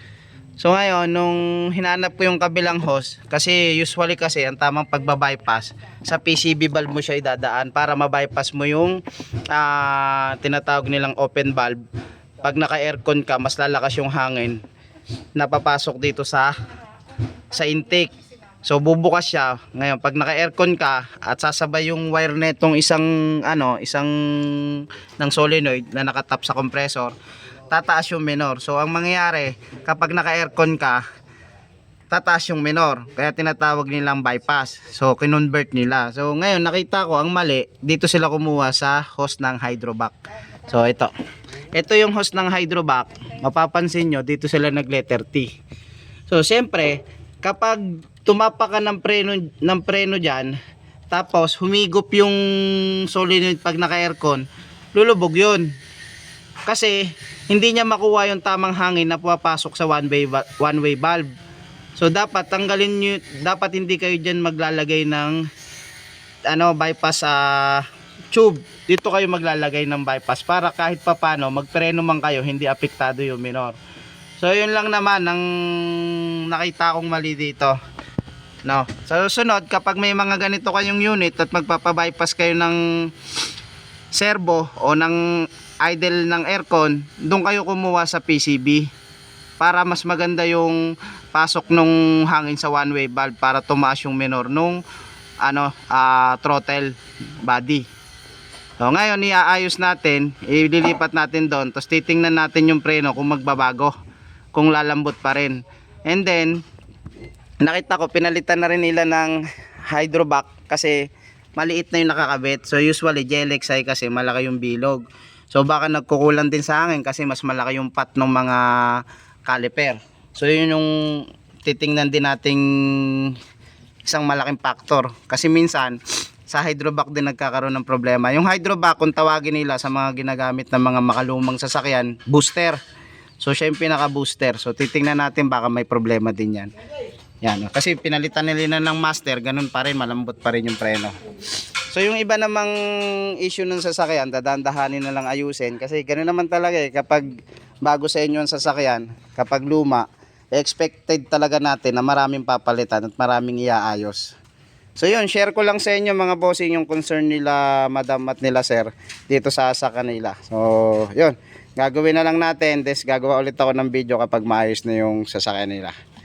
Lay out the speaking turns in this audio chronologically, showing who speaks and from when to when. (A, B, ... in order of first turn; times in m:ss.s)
0:00.6-0:11.8 A
0:12.4-0:14.6 A
0:15.4-0:16.6 A
0:17.5-0:18.1 A
0:18.6-0:27.2 A
0:27.7-0:31.0 A
0:32.1-0:40.2 A
0:40.7-0:41.1 A
0:41.7-0:45.5 A
0:46.3-0:50.6 A
0:51.1-0:55.8 A
0:56.7-1:01.3 A
1:02.0-1:05.4 A
1:06.5-1:13.8 A
1:14.4-1:17.8 A
1:18.6-1:23.1 A
1:24.1-1:28.9 A
1:29.6-1:34.8 A
1:35.4-1:37.8 A
1:38.8-1:43.9 A
1:44.5-1:46.6 A
1:47.6-2:03.4 A
2:04.0-2:12.8 A
2:13.4-2:16.7 A
2:17.4-2:21.2 A
2:21.9-2:34.4 A
2:35.0-2:46.0 A